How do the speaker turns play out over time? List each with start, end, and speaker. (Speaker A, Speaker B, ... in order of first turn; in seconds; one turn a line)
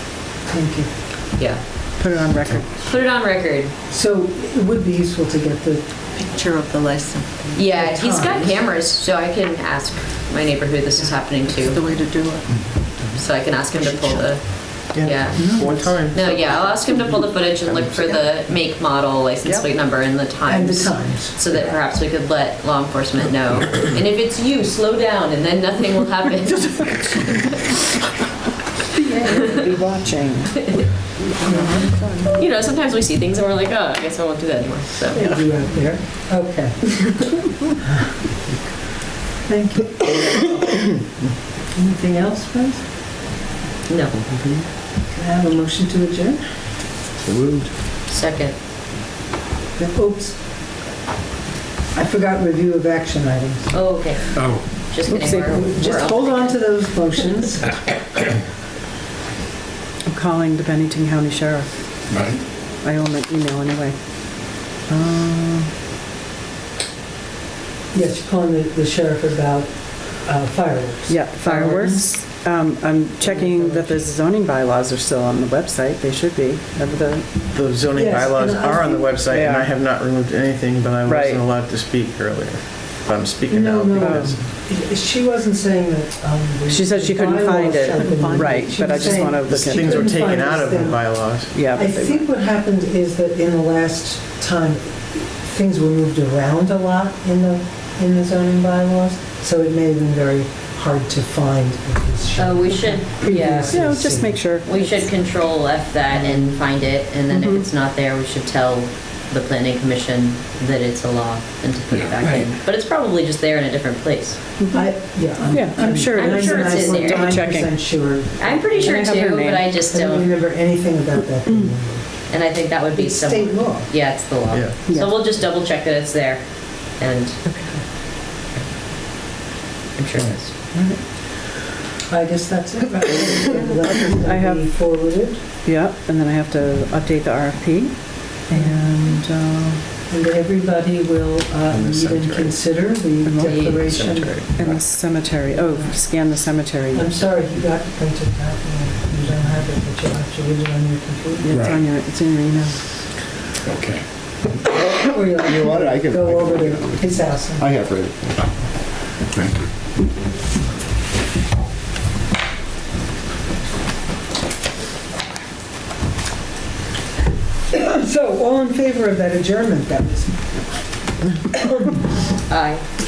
Speaker A: 0.5-0.9
Speaker B: 1.4-1.6
Speaker C: 2.0-2.7
Speaker B: 2.8-3.7
Speaker A: 3.9-5.8
Speaker D: 6.2-7.6
Speaker B: 7.5-11.8
Speaker A: 7.7-8.6
Speaker D: 11.5-12.6
Speaker B: 13.2-27.8
Speaker E: 14.9-18.1
Speaker A: 15.3-16.0
Speaker A: 20.5-21.4
Speaker A: 29.1-29.7
Speaker B: 29.3-29.6
Speaker D: 31.4-32.4
Speaker A: 31.4-32.0
Speaker B: 32.1-35.2
Speaker A: 35.1-38.2
Speaker A: 39.5-41.0
Speaker A: 41.8-42.9
Speaker B: 43.9-44.2
Speaker E: 44.2-44.6
Speaker A: 45.1-46.4
Speaker F: 47.2-47.7
Speaker B: 48.1-48.5
Speaker A: 49.8-50.4
Speaker A: 51.9-53.8
Speaker B: 53.7-57.2
Speaker C: 55.1-55.6
Speaker A: 55.5-57.8
Speaker C: 60.1-61.7
Speaker F: 62.1-62.4
Speaker C: 62.8-64.0
Speaker C: 64.7-65.7
Speaker A: 67.9-71.2
Speaker C: 71.1-77.3
Speaker B: 71.5-72.1
Speaker A: 73.2-74.1
Speaker E: 77.5-84.4
Speaker A: 77.9-79.2
Speaker C: 79.3-79.7
Speaker C: 81.0-81.5
Speaker A: 83.5-91.2
Speaker C: 84.0-84.4
Speaker C: 86.7-90.1
Speaker E: 88.4-91.8
Speaker C: 91.5-92.2
Speaker A: 91.7-104.4
Speaker B: 102.4-103.9
Speaker C: 103.7-104.9
Speaker B: 104.6-114.4
Speaker C: 107.3-107.7
Speaker C: 114.6-114.9
Speaker A: 114.7-119.0
Speaker C: 115.5-117.7
Speaker B: 116.0-117.3
Speaker B: 118.4-120.3
Speaker C: 118.8-119.7
Speaker A: 119.8-122.1
Speaker B: 122.3-126.4
Speaker A: 123.0-123.9
Speaker C: 124.9-125.1
Speaker B: 127.0-127.4
Speaker C: 127.5-127.8
Speaker B: 130.0-130.5
Speaker C: 130.7-131.0
Speaker A: 132.1-135.4
Speaker C: 134.2-134.7
Speaker C: 135.7-139.8
Speaker A: 138.5-138.8
Speaker A: 140.1-144.4
Speaker E: 141.7-142.6
Speaker C: 143.2-143.8
Speaker B: 143.4-143.8
Speaker E: 143.6-144.8
Speaker C: 144.5-147.1
Speaker A: 145.5-145.9
Speaker A: 146.9-151.5
Speaker C: 151.4-152.8
Speaker F: 151.5-151.8
Speaker F: 153.6-154.0
Speaker F: 154.7-158.5
Speaker A: 154.7-157.7
Speaker F: 159.3-159.6
Speaker A: 167.7-170.5
Speaker A: 171.6-172.0
Speaker B: 172.5-172.8